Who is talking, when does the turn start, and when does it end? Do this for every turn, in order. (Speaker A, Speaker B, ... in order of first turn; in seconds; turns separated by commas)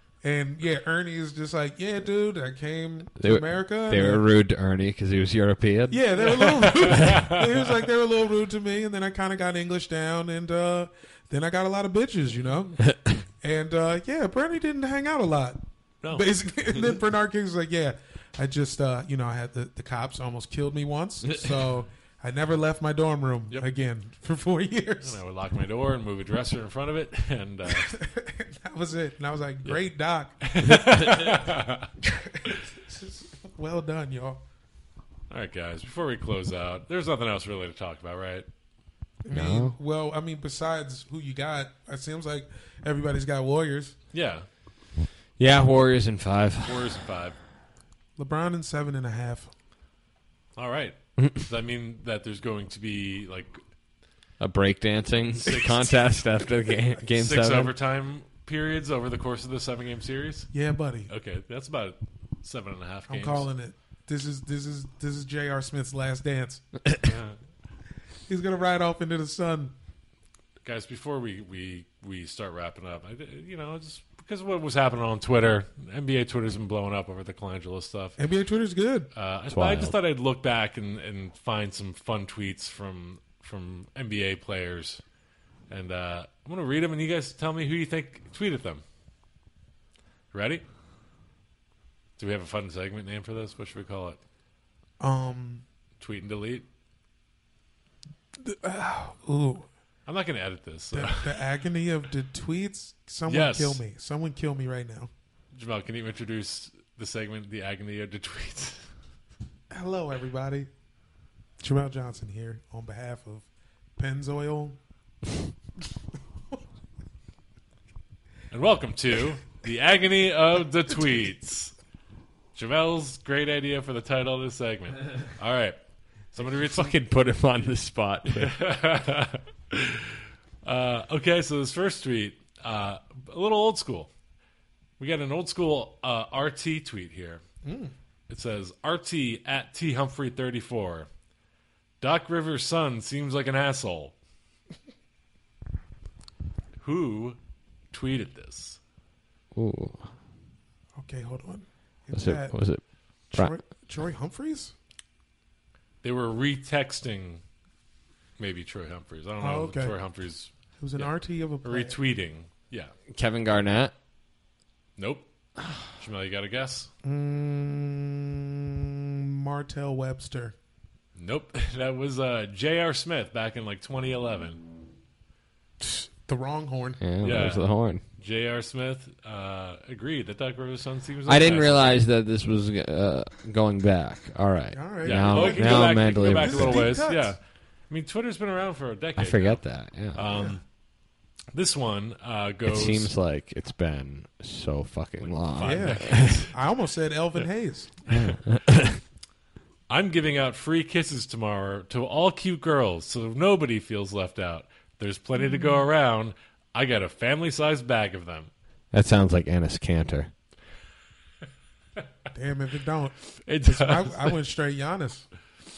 Speaker A: 0.2-4.3, Speaker B: 3.2-6.1, Speaker A: 5.9-25.2, Speaker C: 6.2-7.8, Speaker C: 16.0-16.9, Speaker C: 25.0-27.9, Speaker A: 27.7-30.5, Speaker C: 30.4-31.9, Speaker A: 32.0-34.4, Speaker C: 35.3-38.5, Speaker A: 39.2-44.0, Speaker B: 39.3-39.8, Speaker C: 44.1-44.5, Speaker B: 45.4-46.8, Speaker C: 46.6-47.4, Speaker A: 48.2-49.5, Speaker C: 50.6-53.6, Speaker B: 54.4-57.7, Speaker C: 55.4-56.0, Speaker C: 57.1-60.5, Speaker A: 60.5-61.1, Speaker C: 61.1-63.5, Speaker A: 63.1-66.6, Speaker C: 67.0-67.4, Speaker A: 68.3-69.7, Speaker C: 70.6-78.2, Speaker A: 78.2-79.1, Speaker C: 79.1-85.0, Speaker B: 79.5-79.9, Speaker C: 85.7-88.8, Speaker C: 90.3-90.6, Speaker C: 92.2-94.2, Speaker A: 95.0-95.7, Speaker C: 96.0-96.7, Speaker A: 98.4-99.7, Speaker C: 100.1-101.4, Speaker A: 100.9-105.1, Speaker C: 103.3-103.8, Speaker C: 105.5-108.9, Speaker A: 109.7-110.7, Speaker A: 111.6-114.8, Speaker C: 118.5-121.7, Speaker C: 122.5-125.8, Speaker C: 126.3-126.9, Speaker B: 126.6-128.6, Speaker C: 128.3-134.1, Speaker C: 135.0-137.4, Speaker A: 137.6-137.9, Speaker C: 138.3-141.1, Speaker C: 142.0-144.2, Speaker C: 146.8-147.4, Speaker C: 147.9-148.8, Speaker B: 149.6-150.1, Speaker A: 151.0-152.6, Speaker B: 152.1-152.8, Speaker A: 153.3-154.7, Speaker C: 156.0-157.4, Speaker C: 158.4-161.1, Speaker A: 159.4-159.9, Speaker A: 160.8-162.0, Speaker C: 161.6-162.9, Speaker B: 163.1-163.9, Speaker C: 165.0-165.3, Speaker C: 166.0-166.9, Speaker A: 167.0-170.6, Speaker C: 171.2-174.6, Speaker A: 175.8-177.0, Speaker B: 177.0-178.0, Speaker C: 177.2-177.7, Speaker C: 178.2-181.9, Speaker B: 181.3-186.9, Speaker A: 184.7-187.4, Speaker C: 185.0-189.6, Speaker B: 189.2-190.2, Speaker C: 190.2-190.6, Speaker A: 190.3-190.6, Speaker C: 191.5-193.1, Speaker B: 192.7-196.2, Speaker C: 195.5-196.6, Speaker A: 195.6-198.0, Speaker B: 198.1-199.0, Speaker C: 199.9-208.5, Speaker B: 208.9-210.3, Speaker A: 212.3-215.3, Speaker C: 213.5-214.4